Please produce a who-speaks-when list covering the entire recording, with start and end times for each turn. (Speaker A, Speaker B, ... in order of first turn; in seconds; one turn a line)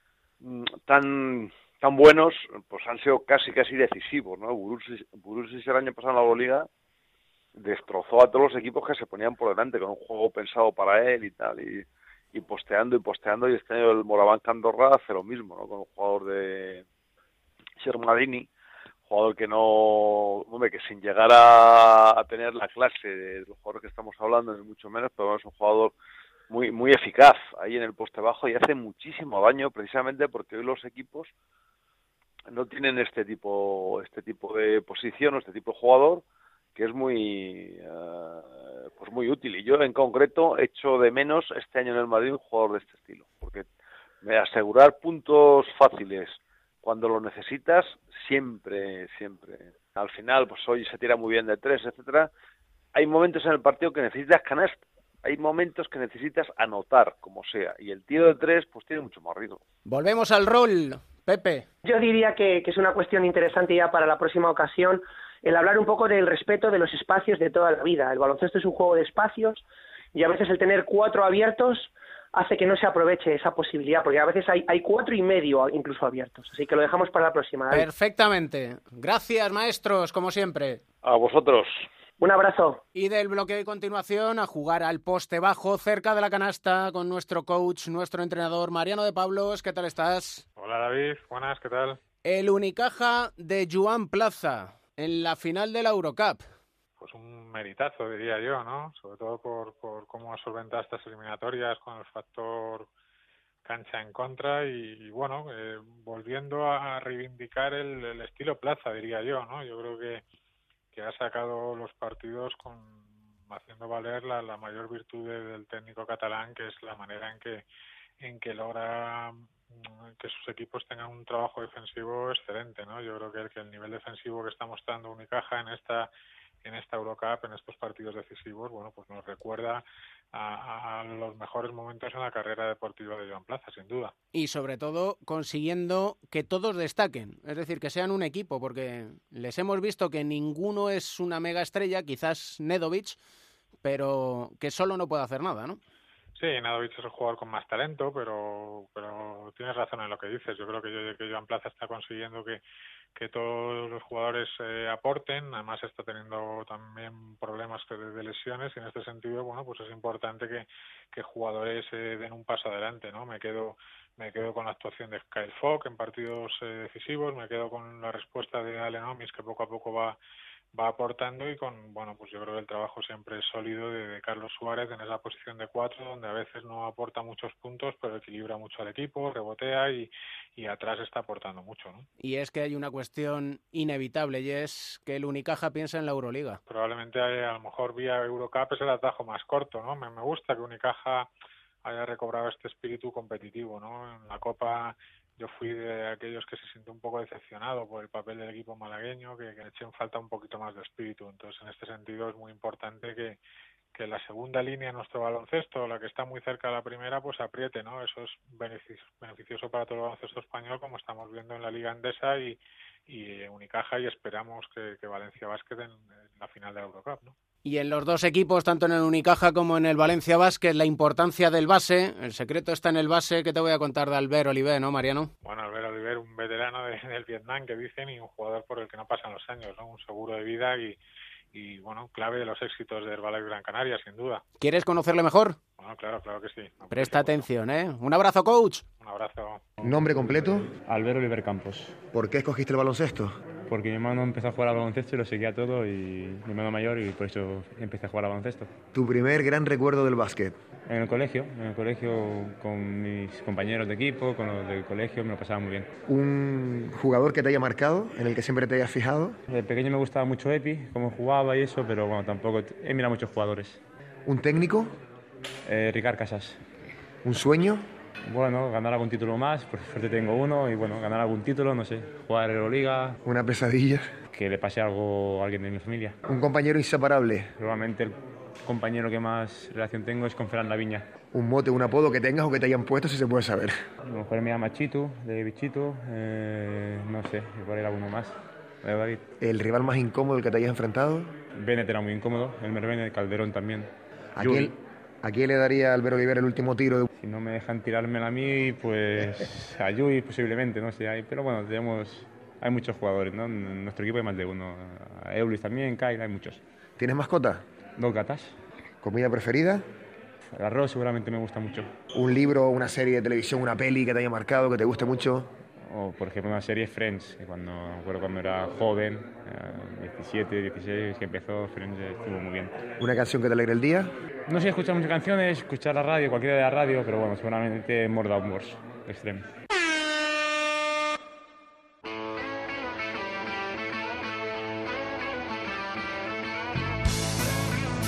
Speaker A: 0.4-6.7
Speaker A: 7.6-16.8
Speaker A: 17.8-18.5
Speaker A: 19.1-25.9
Speaker A: 26.5-31.3
Speaker A: 32.5-36.2
Speaker A: 36.8-43.7
Speaker A: 44.2-52.3
Speaker A: 52.9-59.6
Speaker B: 59.9-61.7
Speaker C: 61.8-69.6
Speaker C: 70.1-77.8
Speaker B: 77.7-80.8
Speaker A: 81.0-81.8
Speaker C: 82.2-82.8
Speaker B: 82.9-90.4
Speaker D: 90.6-92.0
Speaker B: 92.2-96.4
Speaker D: 97.0-102.9
Speaker D: 103.7-110.2
Speaker D: 110.9-117.6
Speaker D: 118.2-126.1
Speaker D: 126.6-134.1
Speaker B: 134.3-143.2
Speaker B: 143.8-145.8
Speaker D: 146.4-152.6
Speaker D: 153.2-170.2
Speaker D: 170.7-182.1
Speaker B: 182.2-186.6
Speaker D: 186.7-191.3
Speaker D: 191.8-203.4
Speaker D: 203.9-217.3
Speaker B: 217.6-225.3
Speaker D: 225.4-231.0
Speaker D: 231.5-234.4
Speaker B: 234.6-235.6
Speaker D: 235.8-237.4
Speaker B: 236.9-238.8
Speaker D: 239.0-239.6
Speaker E: 239.8-240.7
Speaker F: 240.8-242.0
Speaker E: 242.1-243.3
Speaker F: 243.7-248.7
Speaker E: 248.9-250.5
Speaker F: 250.9-255.9
Speaker E: 256.1-259.4
Speaker F: 259.5-263.8
Speaker E: 264.2-264.9
Speaker F: 265.6-266.6
Speaker E: 267.2-267.9
Speaker F: 268.2-273.2
Speaker E: 273.2-274.1
Speaker F: 274.3-276.1
Speaker E: 276.3-277.5
Speaker F: 277.6-281.1
Speaker E: 281.3-283.8
Speaker F: 284.0-289.2
Speaker E: 289.4-291.3
Speaker F: 291.5-293.9
Speaker E: 294.4-297.1
Speaker F: 297.2-306.6
Speaker E: 307.0-307.6
Speaker F: 308.0-308.5
Speaker E: 309.0-309.8
Speaker F: 310.6-311.9
Speaker E: 312.1-315.5
Speaker F: 315.9-322.8
Speaker E: 323.0-324.1
Speaker F: 324.5-329.5